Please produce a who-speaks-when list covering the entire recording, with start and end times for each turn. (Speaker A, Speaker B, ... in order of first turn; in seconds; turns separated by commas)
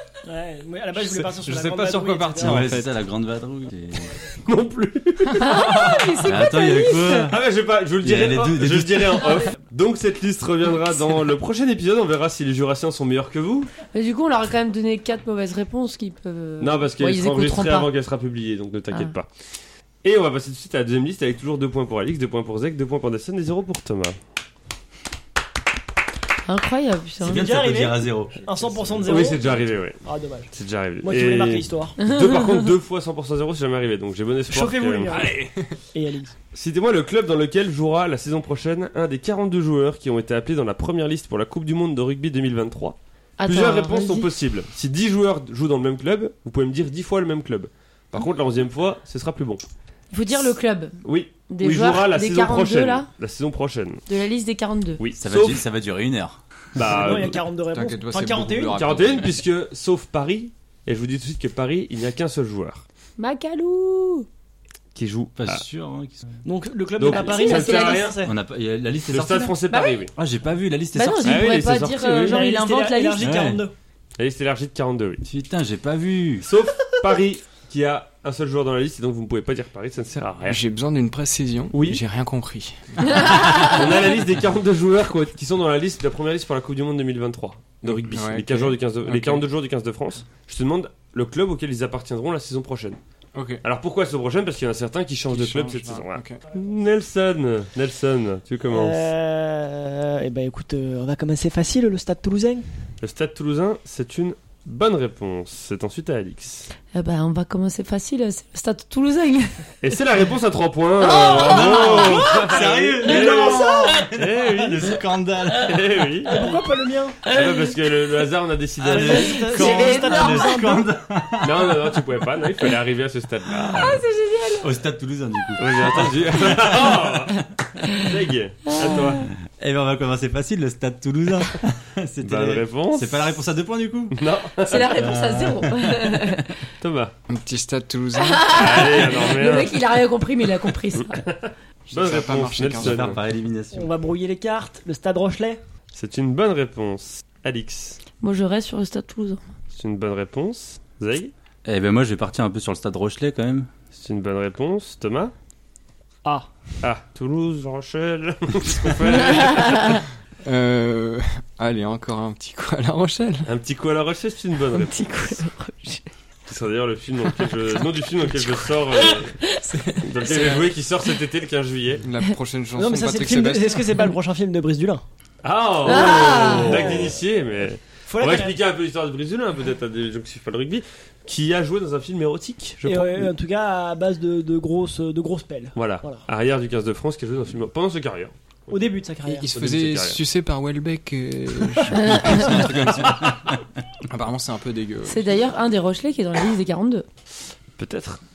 Speaker A: 0.2-2.7, Speaker B: 0.9-2.9, Speaker C: 2.4-4.2, Speaker D: 4.4-6.2, Speaker E: 5.3-7.3, Speaker C: 6.2-7.4, Speaker D: 7.3-13.7, Speaker C: 8.0-9.4, Speaker E: 13.9-17.9, Speaker D: 16.6-19.3, Speaker D: 20.0-24.2, Speaker E: 26.4-27.5, Speaker C: 27.2-29.2, Speaker A: 27.2-32.0, Speaker D: 29.1-35.3, Speaker E: 32.0-32.7, Speaker A: 34.5-35.4, Speaker B: 35.1-35.8, Speaker A: 35.9-36.3, Speaker D: 36.5-49.6, Speaker E: 43.4-44.3, Speaker E: 50.1-53.1, Speaker D: 51.0-54.0, Speaker E: 54.1-55.0, Speaker D: 55.0-55.6, Speaker C: 55.2-56.4, Speaker D: 56.8-57.4, Speaker A: 56.9-58.9, Speaker B: 57.7-59.4, Speaker D: 58.7-62.9, Speaker E: 63.2-64.3, Speaker D: 65.0-65.6, Speaker C: 65.4-66.4, Speaker A: 66.4-68.4, Speaker D: 67.0-68.2, Speaker E: 67.1-68.2, Speaker C: 68.2-69.6, Speaker D: 69.1-70.1, Speaker E: 69.7-70.1, Speaker C: 70.2-71.5, Speaker E: 71.0-73.4, Speaker D: 71.2-72.4, Speaker A: 72.1-73.7, Speaker C: 73.2-73.7, Speaker D: 74.2-75.3, Speaker C: 75.3-76.5, Speaker D: 76.4-80.6, Speaker B: 80.5-83.6, Speaker D: 81.7-82.0, Speaker E: 83.3-83.6, Speaker D: 83.7-93.0, Speaker B: 87.8-89.5, Speaker B: 93.3-93.6, Speaker D: 93.6-99.1, Speaker B: 95.3-96.4, Speaker A: 98.7-102.7, Speaker D: 103.0-106.7, Speaker E: 106.9-109.7, Speaker D: 109.8-115.0, Speaker E: 111.0-112.4, Speaker C: 111.1-116.3, Speaker A: 112.0-114.1, Speaker E: 113.2-114.0, Speaker D: 115.6-116.4, Speaker A: 116.3-117.3, Speaker D: 117.2-119.4, Speaker C: 118.8-122.0, Speaker A: 119.0-120.8, Speaker E: 119.1-120.8, Speaker D: 121.4-124.0, Speaker E: 123.7-124.7, Speaker C: 124.6-127.5, Speaker D: 125.6-129.3, Speaker E: 128.7-129.3, Speaker C: 128.8-136.4, Speaker D: 132.2-133.4, Speaker D: 134.1-135.0, Speaker E: 134.6-136.6, Speaker D: 136.8-137.2, Speaker B: 137.3-138.9, Speaker E: 138.2-141.2, Speaker D: 138.5-139.8, Speaker D: 140.9-143.2, Speaker B: 141.9-143.2, Speaker C: 142.8-143.9, Speaker A: 143.7-145.6, Speaker D: 145.9-148.0, Speaker E: 148.2-149.4, Speaker D: 149.7-151.3, Speaker C: 151.7-153.7, Speaker D: 153.9-155.3, Speaker D: 156.8-160.0, Speaker E: 159.3-160.0, Speaker B: 160.4-163.5, Speaker D: 163.5-165.3, Speaker E: 164.7-166.1, Speaker D: 166.5-169.4, Speaker E: 168.9-169.7, Speaker B: 169.7-170.8, Speaker D: 170.0-172.1, Speaker B: 172.0-173.9, Speaker A: 172.8-175.0, Speaker D: 175.4-183.3, Speaker E: 175.8-177.1, Speaker A: 175.9-177.2, Speaker A: 178.1-178.6, Speaker A: 182.8-186.3, Speaker D: 185.8-188.8, Speaker A: 188.7-189.5, Speaker B: 189.3-193.4, Speaker D: 189.5-190.2, Speaker E: 191.9-192.6, Speaker C: 193.1-193.3, Speaker B: 194.0-195.3, Speaker E: 195.1-197.1, Speaker D: 197.8-198.2